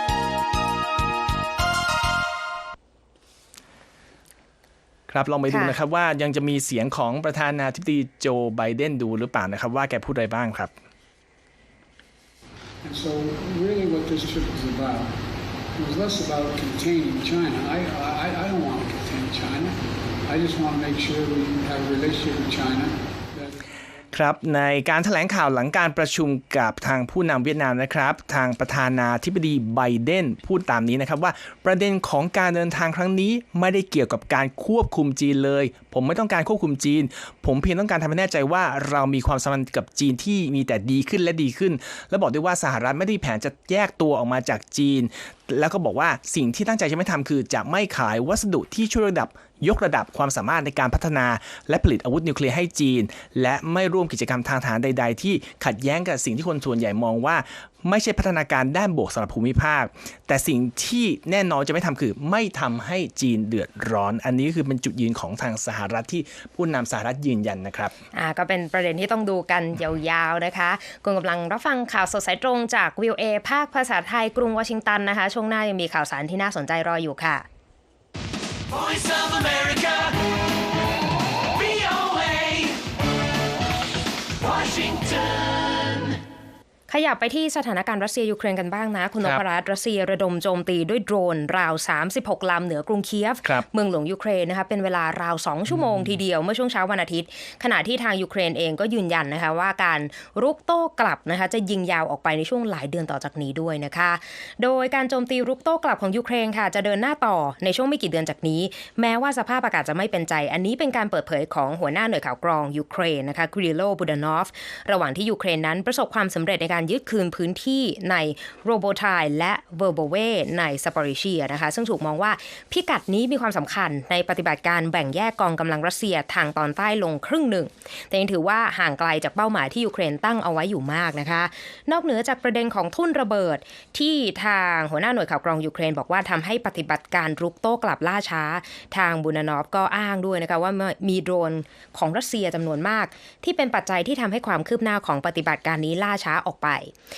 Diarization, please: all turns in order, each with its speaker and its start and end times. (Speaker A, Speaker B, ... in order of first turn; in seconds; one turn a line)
Speaker A: 5.1-10.7
Speaker B: 5.5-5.8
Speaker C: 12.8-15.2
Speaker C: 15.8-23.6
Speaker A: 24.1-68.0
Speaker B: 68.1-77.5
Speaker D: 78.7-80.1
Speaker D: 81.8-82.5
Speaker D: 84.7-85.1
Speaker B: 86.9-146.9
Speaker A: 95.7-96.2